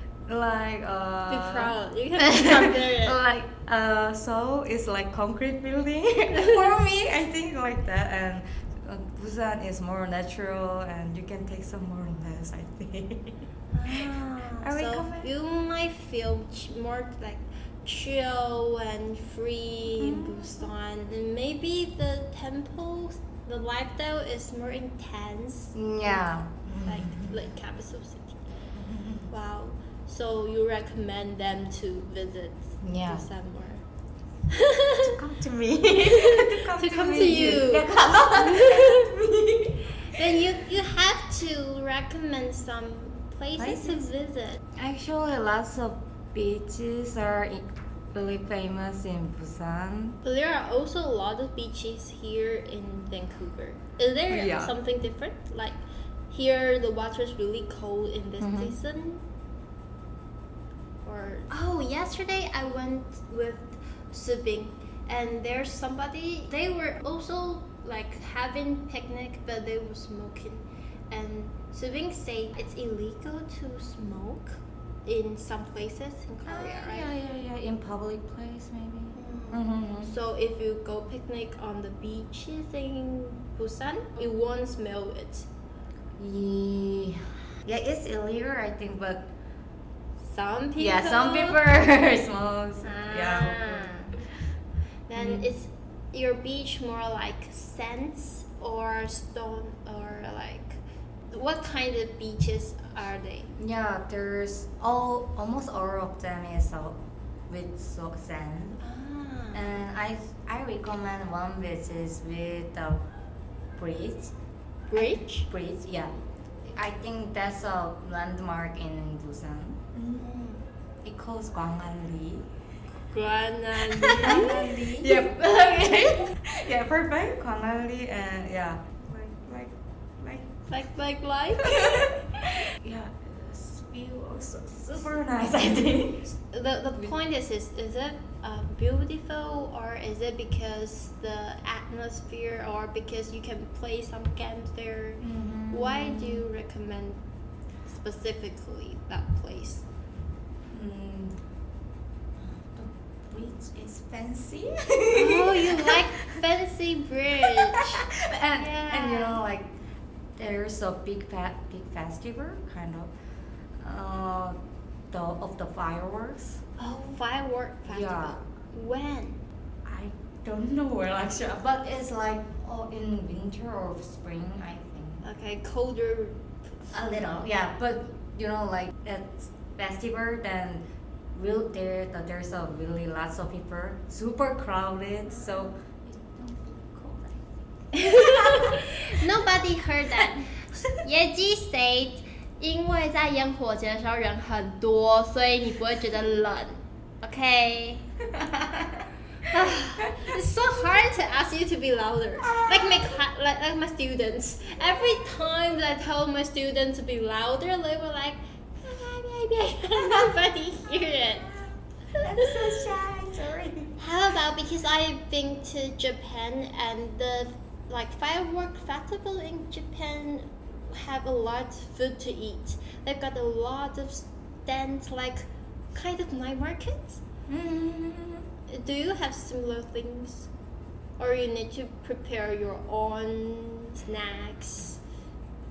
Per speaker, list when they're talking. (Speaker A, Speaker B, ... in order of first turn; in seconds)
Speaker A: 0.3-14.1, 14.6-15.3, 20.0-20.7, 25.7-27.4, 28.8-29.3, 32.8-33.3, 35.0-40.2, 43.6-44.1, 44.8-50.2, 54.3-54.8, 58.4-58.8, 76.5-80.1, 86.2-89.3, 90.8-93.9, 95.2-95.5, 103.6-108.8, 109.5-113.0, 113.8-114.3, 115.0-116.1, 116.7-119.8, 121.0-122.5, 124.0-128.8, 129.4-130.5, 131.6-136.3, 145.2-146.4, 150.7-151.3, 152.4-156.0, 157.5-159.7, 160.4-163.1, 163.8-164.6, 165.1-166.6, 167.9-168.4, 169.8-175.2, 176.9-187.5, 188.1-188.9, 198.3-199.1, 200.1-200.4, 202.4-203.2, 209.9-210.3, 211.0-213.9, 227.5-228.5
Speaker B: 1.3-3.2, 6.3-6.8, 13.7-28.4, 29.3-33.8, 34.5-35.2, 36.0-39.1, 40.0-44.6, 50.2-55.8, 56.3-59.2, 61.0-77.1, 79.1-85.5, 90.2-91.6, 92.8-94.2, 95.1-100.8, 101.3-103.5, 108.8-109.7, 114.9-115.5, 120.2-120.6, 123.1-124.6, 130.7-132.1, 136.5-147.2, 147.9-149.8, 155.1-159.4, 166.8-169.4, 175.2-176.9, 187.9-198.0, 199.5-211.5, 212.2-212.6, 214.0-227.2, 228.7-230.5, 231.2-235.0
Speaker C: 120.0-120.3, 124.1-125.3, 129.0-129.4